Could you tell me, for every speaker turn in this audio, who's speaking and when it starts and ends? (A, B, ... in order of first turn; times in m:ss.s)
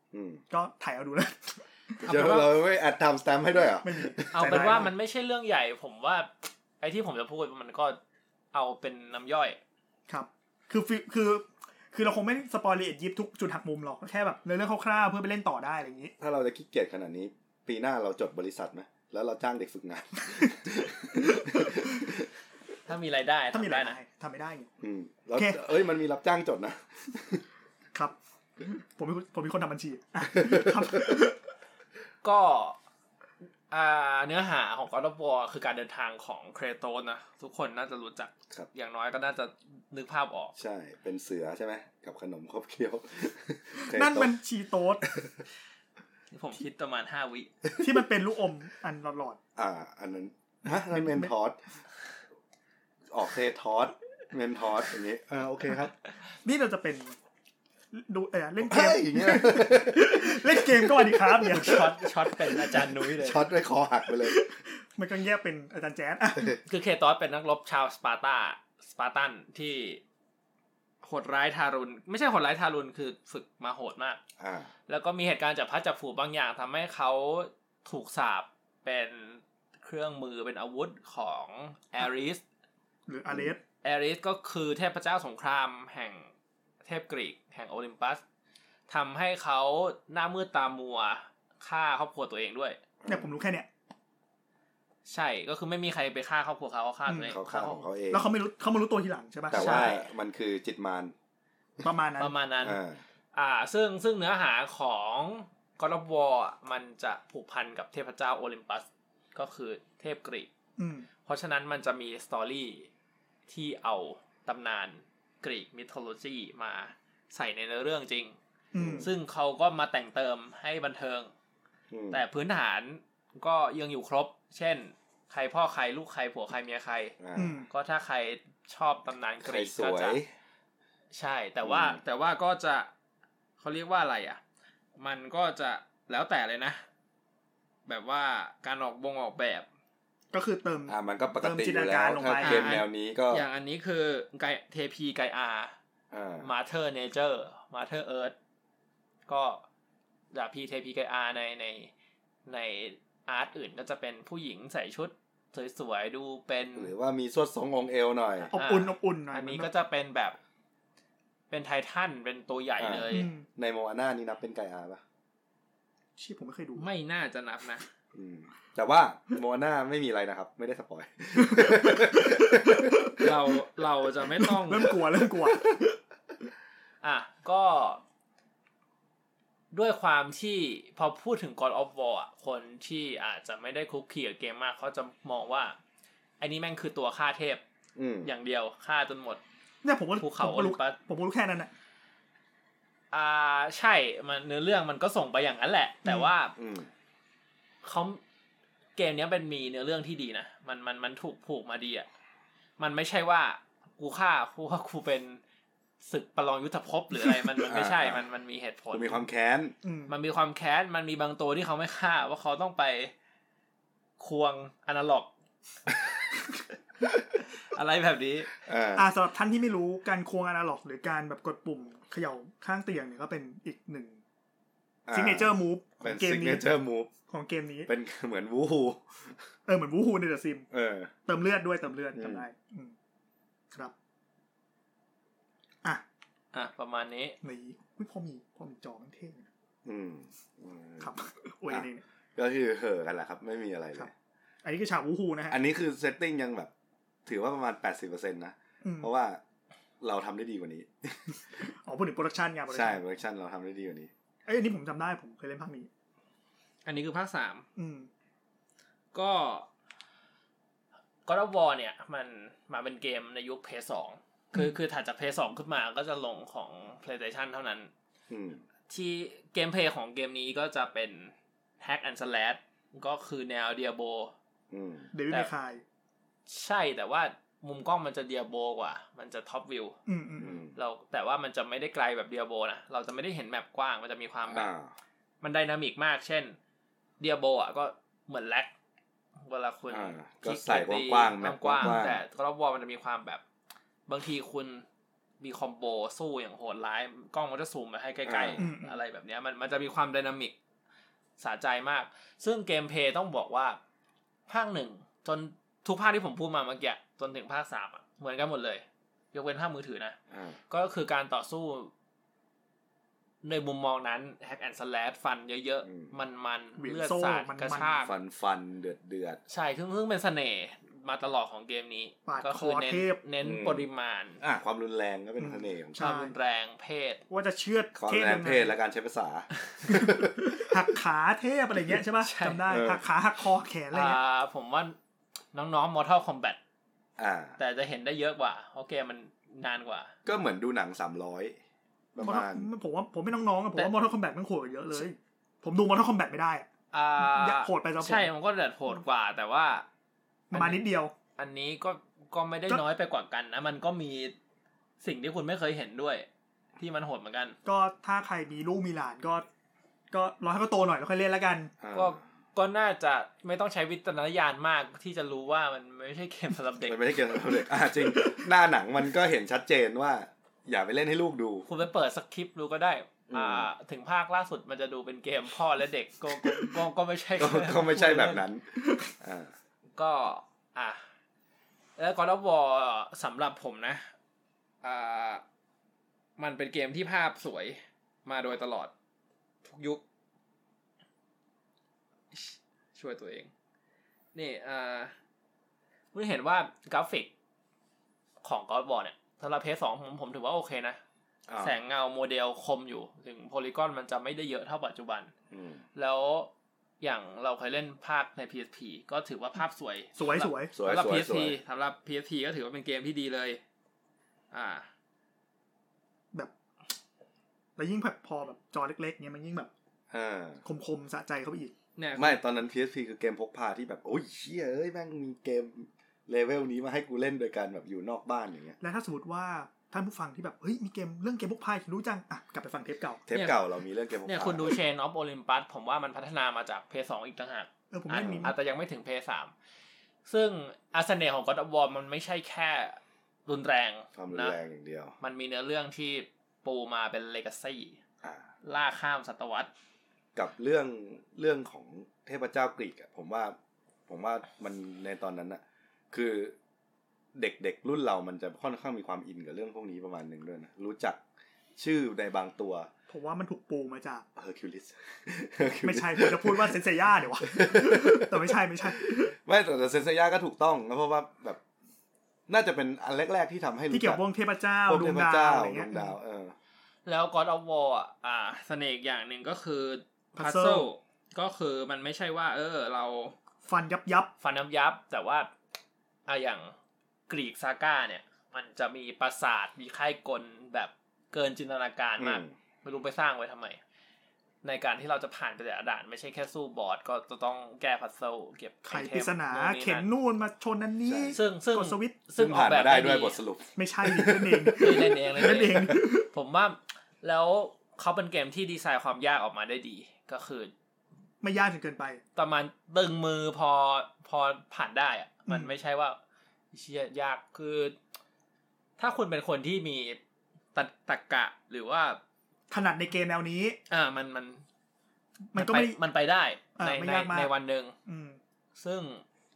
0:00.1-0:00.4 A
0:00.5-0:02.0 B
0:02.0-0:02.5 C
0:02.0-0:04.8 A
0:03.8-0:04.9 B
0:04.3-0:08.0 C
0:08.5-0:09.6 C
0:10.1-0:16.1 B
0:16.2-0:22.2 A
0:21.3-0:21.9 B
0:22.8-0:24.0 C
0:23.5-0:24.7 B
0:24.8-0:27.4 A
0:27.9-0:31.4 B
0:30.3-0:31.1 A
0:32.2-0:32.8 C
0:33.7-0:40.5 C
0:40.6-0:44.4 A
0:43.8-0:45.0 B
0:45.0-0:45.4 A
0:46.3-0:47.5 C
0:47.8-0:49.4 B
0:49.6-0:51.6 A
0:50.9-0:51.3 B
0:53.1-0:55.9 A
0:56.4-0:57.1 B
0:57.9-1:01.9 B
0:58.6-1:01.8 A
1:01.5-1:03.4 C
1:02.7-1:04.4 A
1:04.1-1:06.6 B
1:06.6-1:10.0 C
1:11.0-1:14.2 C
1:14.4-1:14.7 A
1:14.9-1:22.4 C
1:23.1-1:23.6 B
1:23.3-1:23.5 A
1:23.8-1:26.3 C
1:26.8-1:28.2 C
1:28.9-1:32.8 C
1:33.0-1:33.3 A
1:33.1-1:33.7 B
1:35.0-1:37.8 C
1:37.1-1:37.4 B
1:37.2-1:38.3 A
1:38.1-1:39.9 B
1:39.5-1:41.1 A
1:39.5-1:40.0 C
1:41.8-1:42.3 B
1:42.2-1:42.8 C
1:42.6-1:43.0 A
1:43.3-1:50.5 C
1:50.8-1:51.1 B
1:51.2-1:52.9 C
1:53.5-1:58.4 C
1:58.7-1:59.1 B
1:58.8-1:59.1 A
1:59.0-2:01.3 C
2:01.9-2:02.2 A
2:02.1-2:07.2 C
2:07.2-2:07.6 A
2:07.3-2:07.7 B
2:07.7-2:10.2 C
2:09.4-2:10.3 A
2:11.1-2:12.9 C
2:11.6-2:12.0 A
2:13.6-2:14.4 C
2:15.0-2:16.8 C
2:17.9-2:19.6 C
2:20.3-2:22.7 B
2:20.9-2:23.4 A
2:22.4-2:25.7 C
2:26.1-2:26.5 A
2:26.4-2:28.3 C
2:29.3-2:29.6 C
2:30.3-2:31.9 C
2:32.4-2:36.9 C
2:36.8-2:38.5 A
2:38.4-2:40.4 C
2:38.5-2:39.7 B
2:41.5-2:43.3 C
2:42.8-2:45.0 A
2:43.1-2:43.4 B
2:46.2-2:46.9 B
2:46.8-2:47.8 C
2:48.1-2:53.1 A
2:51.4-2:53.3 B
2:53.2-2:55.0 C
2:54.4-2:55.8 B
2:57.0-2:58.0 C
2:59.7-3:05.8 C
3:06.4-3:07.6 C
3:08.0-3:08.3 A
3:08.2-3:09.4 C
3:09.8-3:11.7 B
3:10.2-3:11.0 C
3:13.1-3:16.5 C
3:16.0-3:16.3 B
3:16.6-3:16.9 A
3:17.8-3:18.2 C
3:19.0-3:22.1 C
3:22.8-3:25.4 C
3:26.0-3:29.2 C
3:27.6-3:28.2 A
3:28.9-3:29.7 A
3:29.8-3:30.1 B
3:30.1-3:33.1 C
3:34.2-3:35.3 C
3:37.6-3:38.5 C
3:38.6-3:39.1 A
3:38.9-3:44.2 B
3:45.0-3:47.1 A
3:45.1-3:46.7 B
3:47.3-3:47.9 B
3:47.9-3:49.4 A
3:49.7-3:50.7 B
3:50.7-3:51.1 A
3:51.3-3:52.9 B
3:52.1-3:52.4 A
3:56.5-3:57.4 C
3:57.4-3:59.5 B
3:59.8-4:01.1 A
4:01.0-4:02.0 B
4:01.7-4:04.1 A
4:04.6-4:05.6 B
4:05.5-4:06.7 A
4:07.2-4:09.4 A
4:08.8-4:09.1 B
4:10.0-4:11.4 A
4:11.6-4:13.0 B
4:12.7-4:14.1 A
4:14.4-4:15.9 B
4:16.8-4:17.6 C
4:17.8-4:18.1 B
4:19.1-4:19.7 C
4:21.2-4:27.9 C
4:28.3-4:28.6 A
4:28.9-4:34.3 C
4:34.7-4:35.1 A
4:35.1-4:35.8 B
4:36.5-4:40.0 C
4:40.1-4:40.6 B
4:40.4-4:40.7 A
4:40.7-4:44.7 C
4:44.5-4:44.9 A
4:45.4-4:46.6 C
4:47.2-4:48.7 C
4:49.4-4:53.4 C
4:49.9-4:52.2 A
4:54.1-4:54.8 C
4:55.4-5:00.5 C
4:58.2-4:58.6 A
4:58.6-4:59.0 B
5:01.4-5:03.8 C
5:04.5-5:10.2 C
5:10.3-5:10.6 A
5:10.7-5:11.9 C
5:13.4-5:18.1 C
5:15.8-5:16.1 A
5:16.8-5:18.0 B
5:18.0-5:19.4 A
5:19.5-5:24.4 C
5:22.3-5:23.2 B
5:23.4-5:23.8 A
5:24.4-5:26.0 A
5:25.4-5:26.3 B
5:26.0-5:27.2 C
5:27.3-5:28.8 B
5:27.9-5:30.7 A
5:29.9-5:34.2 B
5:32.2-5:32.6 C
5:32.7-5:33.0 A
5:33.9-5:35.0 C
5:35.5-5:36.6 C
5:37.2-5:37.6 A
5:37.6-5:40.1 C
5:40.2-5:41.6 A
5:42.1-5:42.7 A
5:42.2-5:46.7 B
5:46.9-5:49.8 C
5:47.2-5:48.3 B
5:50.5-5:51.1 B
5:50.5-5:50.8 C
5:51.4-5:54.3 C
5:55.0-5:57.6 C
5:57.6-5:59.4 B
6:00.1-6:01.7 B
6:01.8-6:02.2 A
6:01.9-6:07.1 C
6:06.8-6:11.6 A
6:11.6-6:18.4 C
6:13.3-6:13.7 A
6:17.4-6:19.5 A
6:20.0-6:21.0 C
6:22.0-6:24.1 C
6:24.8-6:25.4 C
6:26.4-6:28.9 C
6:29.6-6:30.0 C
6:32.3-6:33.5 C
6:34.3-6:35.1 C
6:36.1-6:37.3 C
6:38.4-6:41.0 C
6:41.5-6:41.8 A
6:41.6-6:45.3 C
6:45.5-6:45.8 A
6:45.9-6:53.6 C
6:50.2-6:50.7 B
6:50.7-6:51.6 A
6:54.5-6:54.9 C
6:57.8-6:59.7 B
7:00.1-7:00.6 A
7:00.6-7:01.7 B
7:02.0-7:02.4 C
7:02.2-7:08.8 A
7:08.8-7:13.2 B
7:13.3-7:14.8 A
7:13.3-7:13.6 C
7:14.2-7:19.5 C
7:17.9-7:18.5 B
7:18.2-7:18.5 A
7:20.2-7:24.6 C
7:24.2-7:25.1 A
7:25.2-7:28.0 C
7:28.2-7:28.5 A
7:28.6-7:29.7 C
7:30.3-7:33.6 A
7:34.1-7:36.6 A
7:37.4-7:41.2 A
7:41.8-7:42.9 A
7:43.1-7:44.2 B
7:44.4-7:46.7 A
7:45.8-7:49.3 B
7:47.4-7:51.6 A
7:52.5-7:54.2 A
7:53.9-7:56.1 B
7:54.8-7:56.6 A
7:57.0-8:03.4 C
8:00.4-8:00.8 B
8:03.6-8:04.3 B
8:04.4-8:05.5 C
8:06.3-8:06.7 C
8:07.3-8:13.8 C
8:12.2-8:12.5 A
8:14.6-8:20.1 C
8:18.9-8:22.2 B
8:21.0-8:21.4 A
8:21.3-8:23.4 C
8:22.4-8:24.9 A
8:23.8-8:26.3 B
8:24.8-8:30.7 C
8:31.4-8:32.2 B
8:32.4-8:36.2 C
8:36.7-8:38.0 C
8:39.0-8:40.2 C
8:40.7-8:42.2 C
8:42.7-8:43.8 B
8:43.9-8:44.6 C
8:45.5-8:46.0 B
8:45.5-8:47.9 C
8:46.8-8:47.5 B
8:48.0-8:48.4 B
8:48.8-8:49.2 C